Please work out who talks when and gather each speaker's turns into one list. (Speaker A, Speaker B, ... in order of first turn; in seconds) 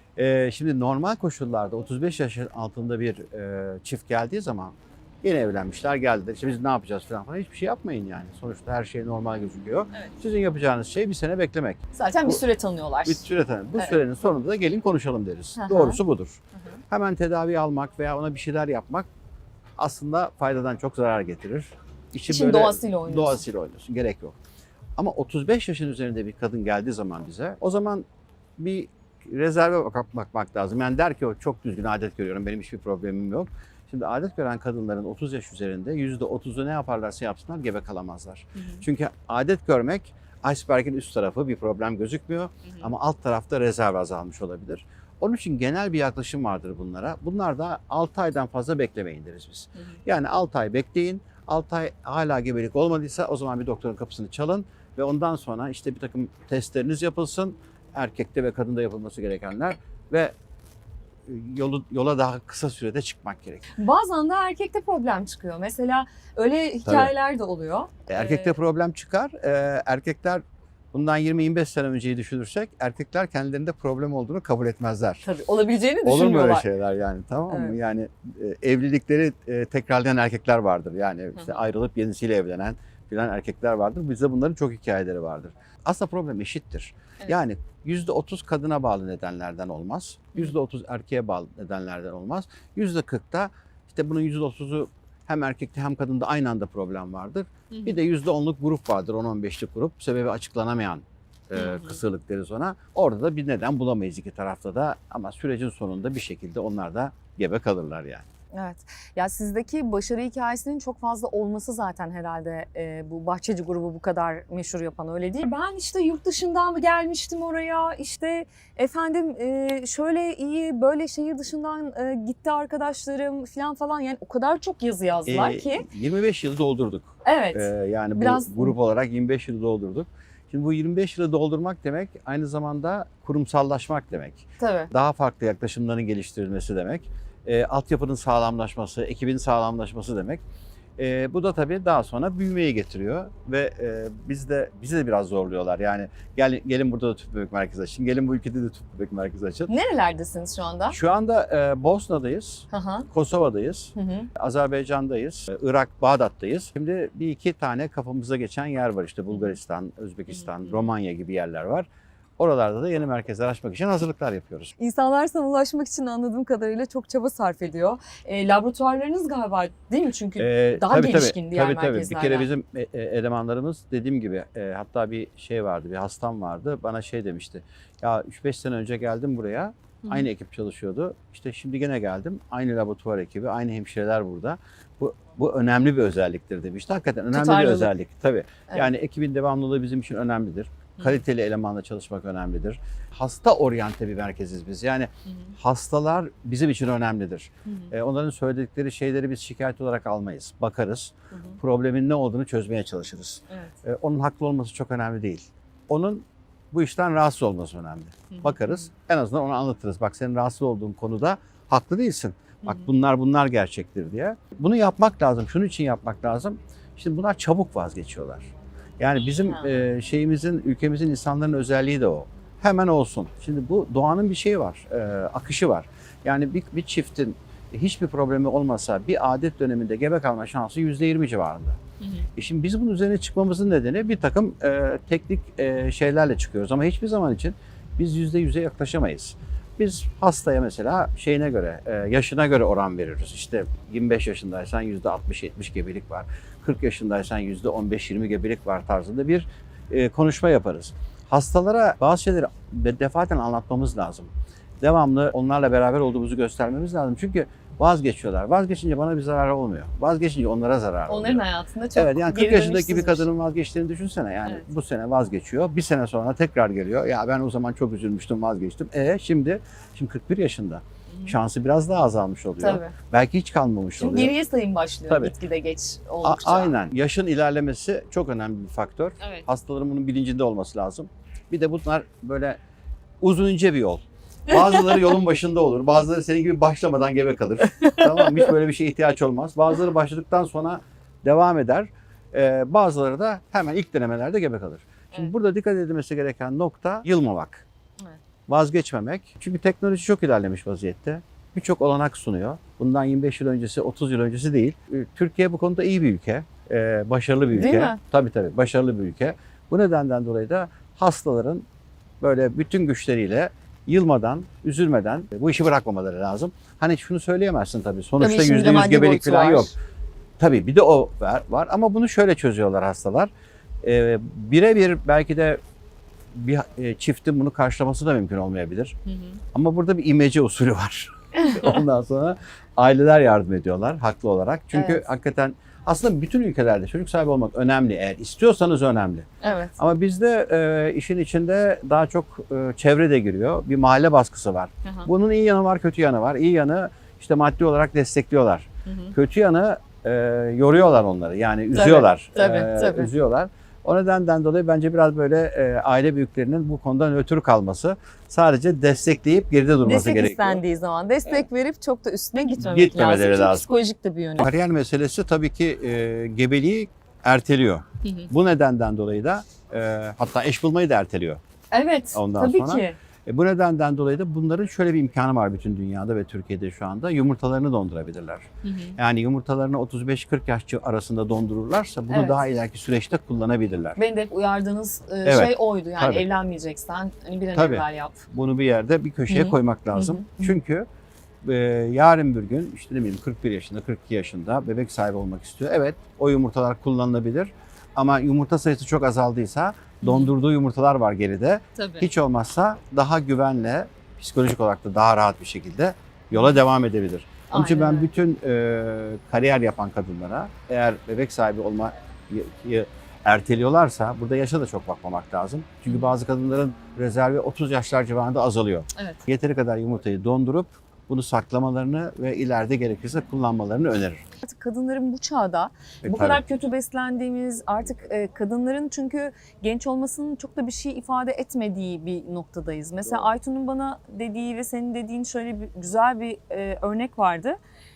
Speaker A: 0.2-12.4, 13.0-19.1, 19.8-24.4, 25.0-28.0, 28.6-60.3, 61.2-63.6, 66.8-67.1, 68.1-70.4, 70.9-75.2, 76.0-108.2, 125.2-140.4, 141.0-149.7, 150.9-161.9, 162.4-164.7, 170.4-231.8, 232.3-274.3, 276.2-282.6, 283.2-297.6, 298.5-311.6, 312.2-319.8, 320.4-323.3, 323.8-325.6, 326.3-328.9, 329.5-360.6, 362.6-363.7, 364.4-371.4, 372.1-384.0, 385.2-386.2, 387.5-390.9, 391.4-424.2, 426.0-426.4
Speaker B: 11.9-13.2, 15.6-16.0, 22.2-23.4, 38.6-38.8, 63.8-68.6, 75.2-76.7, 77.5-77.8, 97.7-98.0, 101.5-102.0, 108.5-125.8, 127.2-128.7, 134.6-134.9, 149.7-151.0, 152.7-153.1, 153.9-154.3, 159.3-159.6, 160.4-160.8, 164.8-172.5, 187.3-187.9, 197.7-197.9, 201.3-201.6, 208.3-208.9, 212.6-212.9, 219.4-219.7, 261.1-263.3, 272.6-272.9, 274.0-276.8, 284.5-285.0, 287.8-288.4, 307.5-308.0, 318.2-319.7, 331.4-331.8, 334.7-335.1, 339.4-339.8, 348.9-349.1, 351.7-353.1, 359.8-364.5, 368.0-368.3, 371.7-373.0, 378.6-378.9, 382.1-382.4, 384.0-388.2, 389.3-390.6, 400.0-400.3, 401.8-402.1, 407.5-408.1, 415.9-416.1, 418.9-419.2, 424.4-437.6